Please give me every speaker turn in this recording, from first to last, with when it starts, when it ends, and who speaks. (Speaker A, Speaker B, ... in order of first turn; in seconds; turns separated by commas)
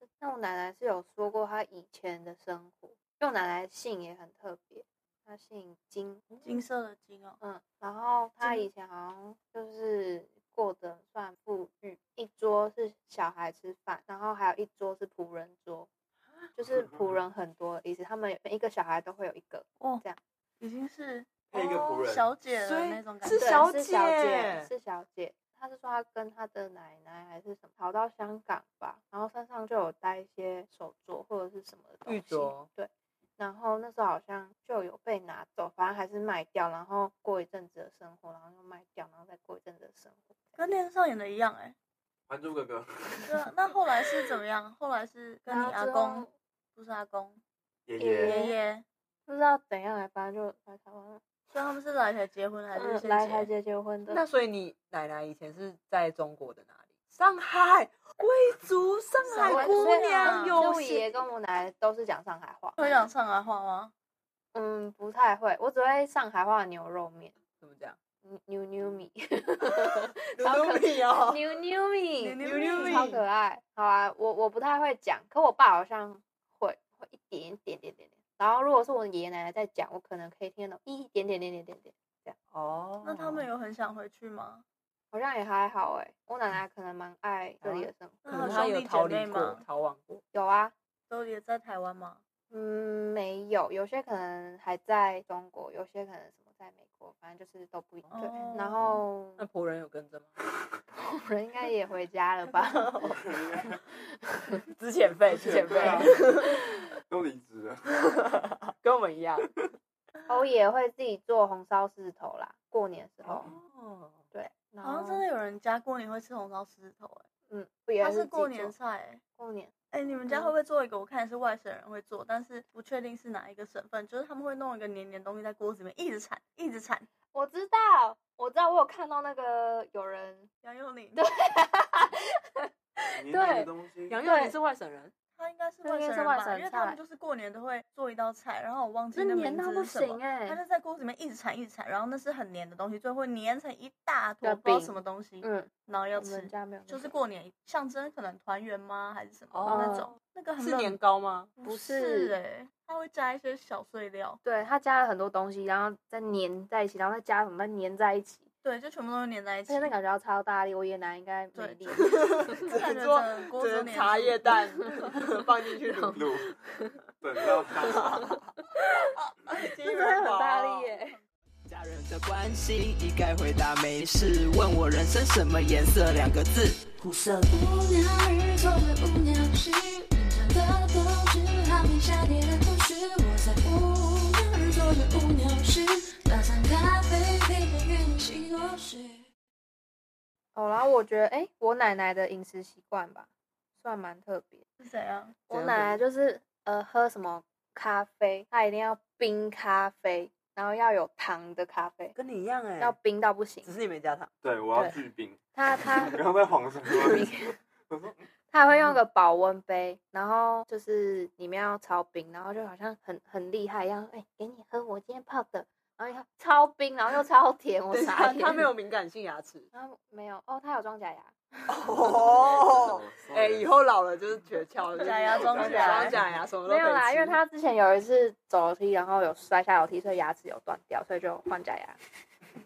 Speaker A: 0.2-6.4, Speaker B: 6.4-7.4, Speaker A: 7.4-15.9, Speaker B: 8.4-8.7, Speaker A: 16.6-20.2, Speaker C: 16.6-17.1, Speaker B: 20.6-23.6, Speaker C: 21.5-22.3, Speaker D: 22.5-24.7, Speaker A: 23.3-40.4, Speaker D: 32.1-32.7, Speaker B: 40.5-41.7, Speaker C: 42.3-43.5, Speaker B: 43.2-47.4, Speaker A: 45.5-46.3, Speaker C: 47.9-48.4, Speaker A: 48.0-48.6, Speaker B: 48.2-48.8, Speaker A: 49.3-51.2, Speaker B: 51.5-53.5, Speaker A: 52.7-54.2, Speaker D: 54.1-61.2, Speaker B: 59.2-60.7, Speaker A: 59.4-62.8, Speaker B: 62.8-63.9, Speaker A: 64.5-67.3, Speaker D: 67.6-68.0, Speaker A: 68.2-82.3, Speaker D: 70.3-71.4, Speaker B: 72.2-73.1, Speaker D: 72.4-73.2, Speaker D: 82.5-83.5, Speaker B: 83.0-84.6, Speaker A: 85.1-88.2, Speaker D: 87.6-90.2, Speaker B: 88.2-89.6, Speaker A: 90.3-90.7, Speaker B: 91.1-92.2, Speaker A: 92.5-99.4, Speaker B: 98.1-99.0, Speaker D: 99.4-100.4, Speaker A: 100.9-103.2, Speaker C: 103.1-103.8, Speaker A: 104.2-104.6, Speaker D: 104.8-106.6, Speaker C: 105.3-106.5, Speaker A: 105.8-106.1, Speaker C: 107.1-107.9, Speaker D: 108.2-109.5, Speaker A: 110.3-113.5, Speaker D: 113.2-114.2, Speaker A: 114.3-115.2, Speaker B: 114.8-117.2, Speaker A: 117.5-118.7, Speaker B: 118.0-119.2, Speaker A: 119.4-119.7, Speaker B: 119.9-127.1, Speaker A: 127.3-130.5, Speaker B: 130.6-131.2, Speaker A: 131.2-133.7, Speaker C: 133.2-134.2, Speaker D: 134.1-135.1, Speaker A: 134.2-134.5, Speaker B: 135.4-151.0, Speaker A: 135.8-137.0, Speaker A: 139.1-140.6, Speaker A: 144.4-147.2, Speaker D: 149.5-151.5, Speaker A: 149.7-150.1, Speaker B: 151.6-154.4, Speaker A: 151.6-152.3, Speaker A: 154.4-158.5, Speaker B: 158.6-159.9, Speaker A: 159.7-162.6, Speaker B: 161.5-164.4, Speaker D: 161.9-166.2, Speaker A: 165.9-166.9, Speaker C: 166.1-166.5, Speaker C: 167.2-168.4, Speaker D: 167.9-168.5, Speaker D: 169.5-170.9, Speaker A: 169.8-171.2, Speaker E: 171.7-177.4, Speaker F: 177.3-189.2, Speaker A: 190.5-194.6, Speaker B: 194.8-195.3, Speaker A: 195.5-202.2, Speaker D: 195.5-196.0, Speaker D: 202.1-203.0, Speaker A: 202.8-203.7, Speaker D: 203.6-204.9, Speaker C: 204.4-208.2, Speaker A: 205.5-206.2, Speaker A: 206.9-207.6, Speaker A: 208.5-218.7, Speaker D: 217.9-219.7, Speaker A: 219.7-221.3, Speaker D: 221.7-227.4, Speaker C: 221.8-223.7, Speaker B: 225.0-226.2, Speaker C: 225.3-226.4, Speaker A: 226.6-232.0